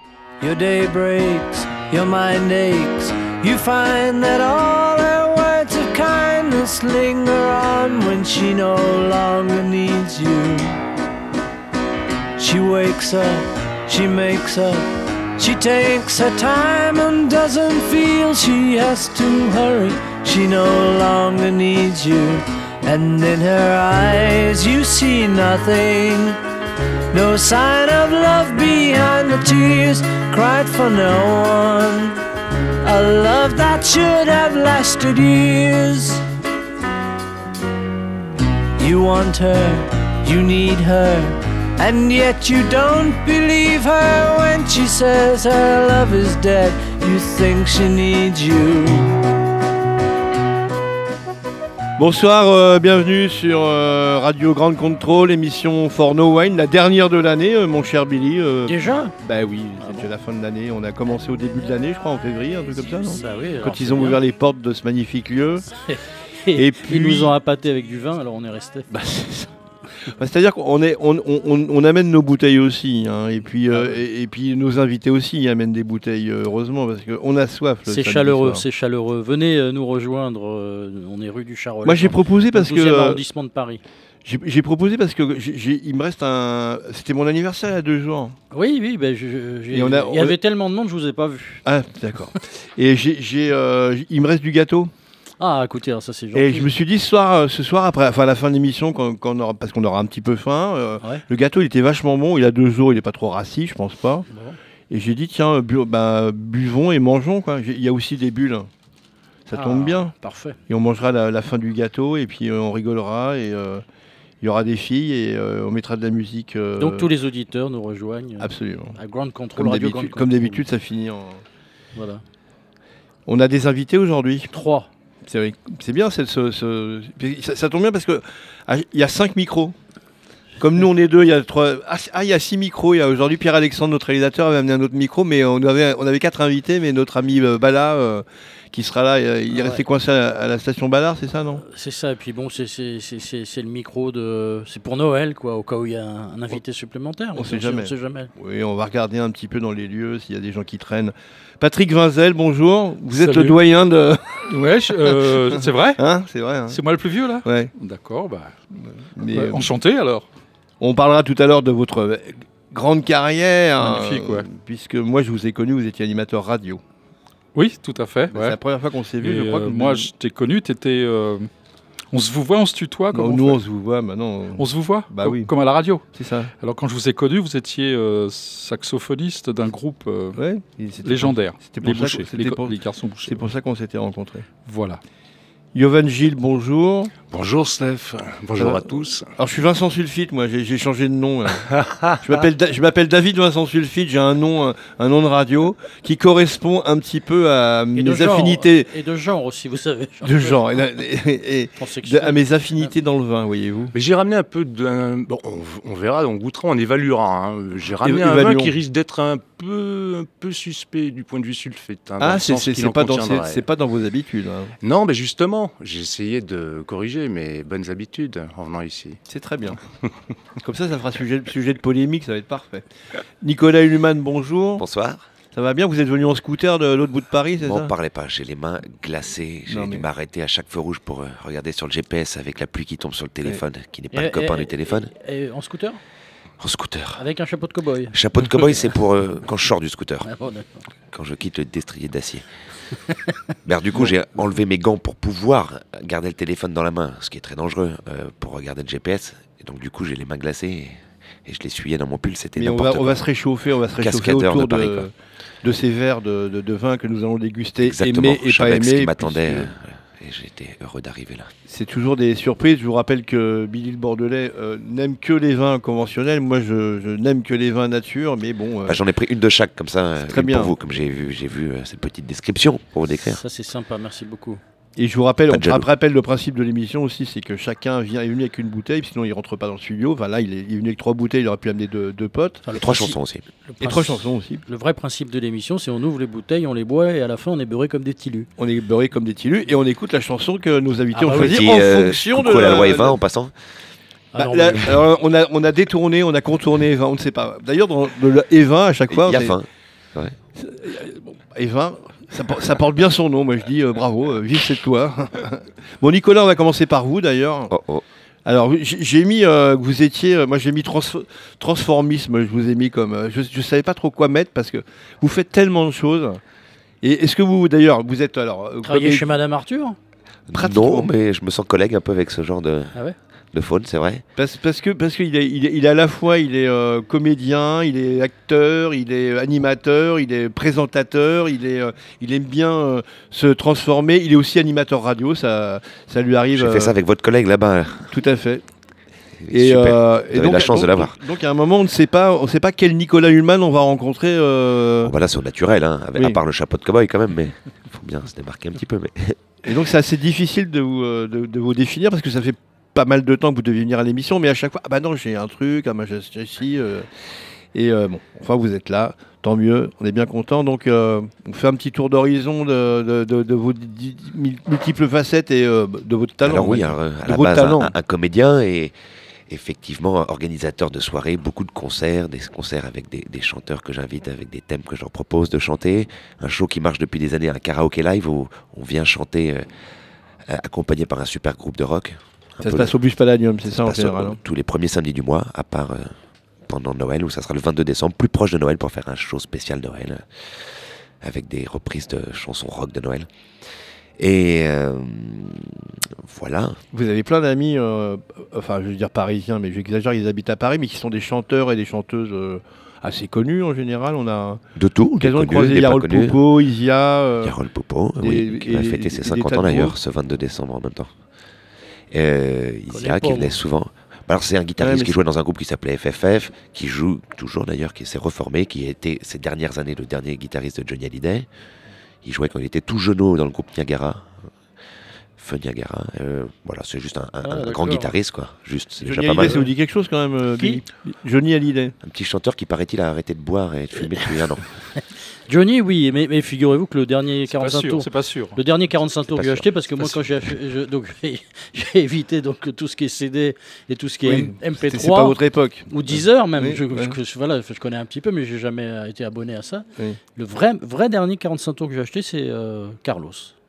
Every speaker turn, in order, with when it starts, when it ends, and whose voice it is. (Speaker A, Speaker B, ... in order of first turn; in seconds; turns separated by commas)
Speaker A: 0.4-10.8, Speaker A: 12.4-26.4, Speaker A: 27.1-32.2, Speaker A: 32.8-36.2, Speaker A: 38.8-49.2, Speaker B: 52.0-65.7, Speaker C: 58.6-59.1, Speaker C: 63.1-64.2, Speaker C: 65.9-68.9, Speaker B: 66.5-67.3, Speaker B: 68.9-69.5, Speaker B: 70.0-78.6, Speaker C: 73.7-74.0, Speaker C: 77.9-83.8, Speaker B: 81.8-83.2, Speaker B: 84.2-88.3, Speaker C: 88.5-91.6, Speaker B: 89.7-90.4, Speaker B: 91.6-94.9, Speaker C: 95.4-96.7, Speaker B: 96.3-104.2, Speaker C: 104.3-104.6, Speaker B: 104.9-108.7, Speaker B: 109.5-110.1, Speaker C: 109.5-110.6, Speaker B: 110.7-113.8, Speaker B: 114.4-117.1, Speaker C: 116.8-120.7, Speaker B: 118.4-119.0, Speaker B: 119.5-121.4, Speaker C: 122.0-122.2, Speaker B: 123.2-124.5, Speaker C: 124.5-124.9, Speaker B: 125.2-129.7, Speaker B: 130.6-141.6, Speaker C: 139.5-139.8, Speaker C: 141.6-148.3, Speaker B: 147.3-156.8, Speaker D: 154.5-156.0, Speaker D: 156.7-158.5, Speaker B: 157.4-157.7, Speaker B: 159.1-159.6, Speaker D: 159.3-160.2, Speaker B: 160.8-166.8, Speaker D: 163.8-164.5, Speaker D: 167.5-168.6, Speaker B: 168.3-170.1, Speaker D: 169.2-171.5, Speaker D: 172.1-173.6, Speaker B: 173.1-175.5, Speaker D: 174.6-176.0, Speaker B: 176.1-176.5, Speaker D: 176.6-180.4, Speaker B: 180.3-184.5, Speaker D: 181.0-183.4, Speaker D: 184.6-185.0, Speaker B: 185.7-187.1, Speaker E: 187.3-189.3, Speaker B: 189.4-191.7, Speaker E: 191.7-192.1, Speaker B: 192.2-198.9, Speaker C: 197.9-200.7, Speaker B: 200.2-203.9, Speaker C: 201.8-202.9, Speaker E: 203.9-213.6, Speaker B: 208.0-208.8, Speaker B: 212.2-214.7, Speaker E: 214.8-219.2, Speaker B: 219.3-219.8, Speaker B: 220.6-222.8, Speaker B: 223.4-224.8, Speaker F: 224.8-225.2, Speaker B: 225.5-227.9, Speaker F: 227.6-235.1, Speaker B: 229.7-230.1, Speaker C: 234.1-236.0, Speaker F: 236.6-237.2, Speaker C: 237.2-238.1, Speaker F: 238.1-240.3, Speaker C: 240.2-240.9, Speaker F: 241.1-242.4, Speaker F: 243.6-253.2, Speaker B: 252.6-259.7, Speaker F: 254.0-255.1, Speaker F: 257.8-261.5, Speaker B: 261.7-269.0, Speaker F: 268.9-273.4, Speaker B: 270.2-270.7, Speaker C: 273.2-274.6, Speaker B: 275.0-282.6, Speaker F: 275.5-275.9, Speaker C: 282.6-288.5, Speaker F: 282.8-283.4, Speaker B: 283.8-284.6, Speaker B: 288.6-293.2, Speaker C: 291.1-291.6, Speaker F: 291.3-293.5, Speaker C: 294.3-295.0, Speaker B: 294.3-299.6, Speaker F: 299.1-300.3, Speaker B: 300.6-307.7, Speaker F: 307.7-308.0, Speaker B: 308.4-316.4, Speaker B: 317.0-319.3, Speaker C: 318.8-320.0, Speaker F: 320.5-322.9, Speaker B: 320.5-321.1, Speaker F: 323.5-324.2, Speaker B: 324.4-337.0, Speaker F: 336.5-338.1, Speaker B: 338.1-338.6, Speaker F: 339.4-341.1, Speaker B: 339.5-345.1, Speaker F: 345.0-349.4, Speaker B: 346.1-346.4, Speaker B: 349.6-357.1, Speaker B: 357.7-367.9, Speaker F: 366.4-368.9, Speaker F: 369.5-379.6, Speaker F: 380.5-382.9, Speaker B: 382.6-384.4, Speaker F: 383.7-386.1, Speaker F: 386.7-390.3, Speaker F: 391.2-393.3, Speaker F: 394.2-396.8, Speaker B: 396.9-404.6, Speaker F: 404.8-406.4, Speaker B: 405.2-407.5, Speaker F: 407.4-411.1, Speaker B: 408.2-410.0, Speaker F: 412.1-421.5, Speaker C: 412.9-413.6, Speaker B: 414.8-415.2, Speaker F: 422.2-424.3, Speaker F: 425.4-429.6, Speaker C: 427.4-428.1, Speaker B: 429.0-431.9, Speaker F: 432.0-434.7, Speaker C: 434.9-445.4, Speaker D: 437.5-438.6, Speaker F: 439.3-440.1, Speaker B: 444.2-447.2, Speaker C: 445.9-453.5